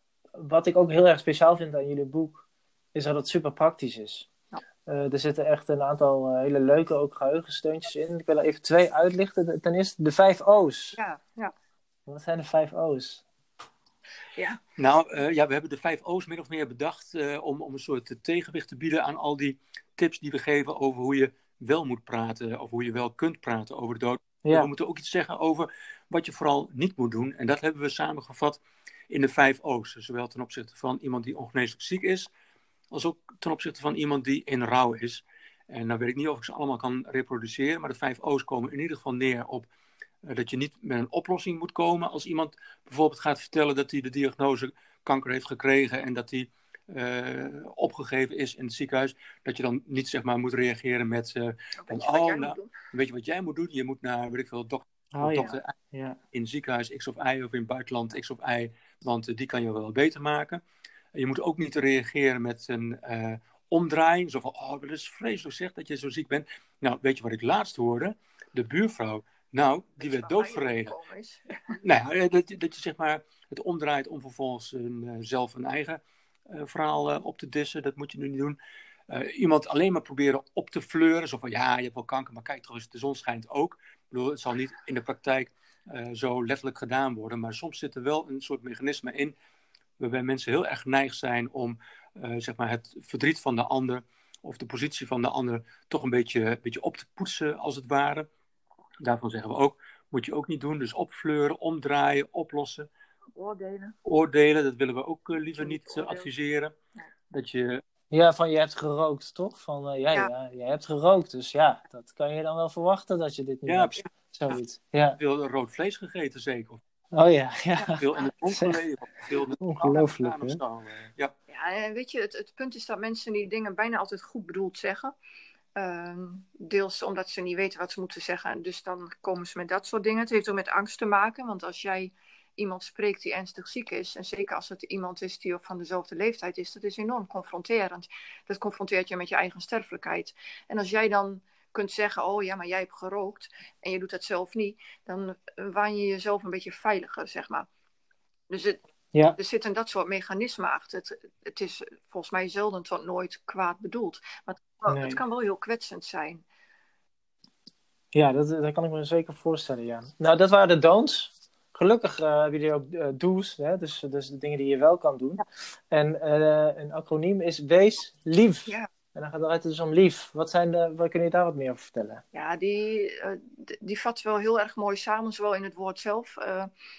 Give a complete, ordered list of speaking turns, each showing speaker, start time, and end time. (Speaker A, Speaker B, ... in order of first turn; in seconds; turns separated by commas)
Speaker A: 0.4-4.3, Speaker A: 4.8-11.0, Speaker B: 11.0-11.5, Speaker A: 12.1-13.2, Speaker C: 14.8-32.3, Speaker A: 24.4-24.7, Speaker C: 32.9-39.7, Speaker C: 40.2-55.7, Speaker B: 51.8-52.7, Speaker A: 55.1-56.2, Speaker C: 56.3-60.6, Speaker C: 61.1-70.9, Speaker B: 70.0-71.8, Speaker C: 71.8-78.6, Speaker C: 79.1-89.3, Speaker C: 90.0-98.3, Speaker C: 99.0-102.9, Speaker B: 103.3-104.0, Speaker C: 104.0-106.7, Speaker B: 105.5-106.3, Speaker C: 107.3-107.8, Speaker A: 108.1-115.2, Speaker C: 113.7-114.0, Speaker C: 115.2-116.8, Speaker A: 117.1-118.8, Speaker C: 118.0-121.3, Speaker A: 119.6-120.6, Speaker B: 121.5-125.1, Speaker B: 125.7-147.7, Speaker B: 148.5-148.8, Speaker B: 149.3-156.4, Speaker A: 154.9-155.2, Speaker A: 158.1-172.2, Speaker B: 172.3-176.7